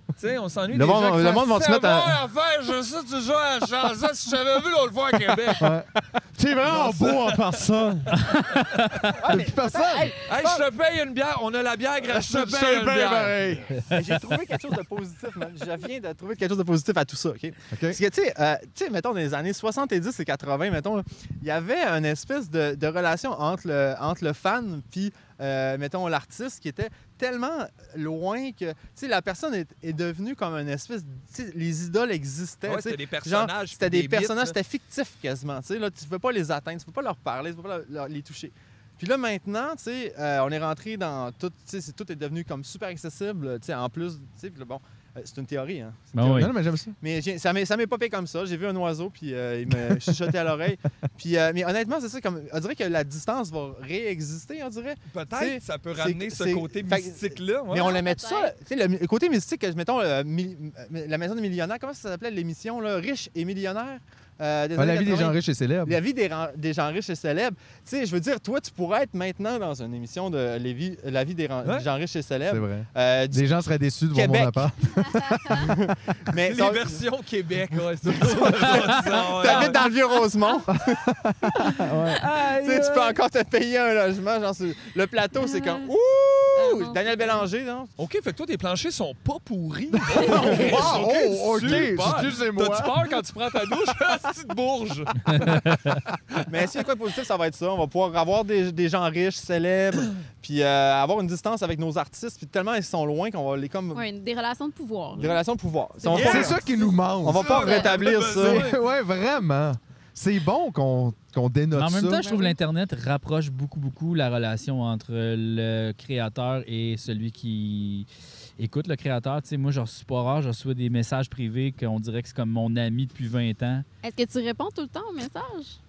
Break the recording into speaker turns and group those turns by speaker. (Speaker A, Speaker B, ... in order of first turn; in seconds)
Speaker A: 0.2-5.7, 6.7-7.5, 10.3-13.5, 32.6-34.6, 55.1-57.9, 76.4-79.8, 88.0-95.8, 106.1-106.6, 107.3-108.8
Speaker B: 0.7-2.2, 9.2-10.6, 13.9-46.5, 47.0-73.5, 74.1-77.0, 78.1-81.1, 82.4-87.9, 90.4-90.9, 96.5-104.1, 105.2-106.6, 107.2-108.7
Speaker C: 5.6-8.2, 9.2-10.2, 12.0-13.8, 17.7-18.0, 46.3-47.0, 49.7-50.2, 64.8-66.0, 72.5-75.8, 80.7-82.2, 90.0-93.0, 106.1-107.6, 108.2-112.3
Speaker D: 8.2-9.1, 46.1-46.5, 82.2-83.1, 95.3-95.9, 111.7-118.1, 118.6-123.8
Speaker E: 57.7-58.5, 85.4-85.9, 86.5-87.4, 103.9-105.4, 106.0-107.9, 112.1-112.6, 124.0-125.8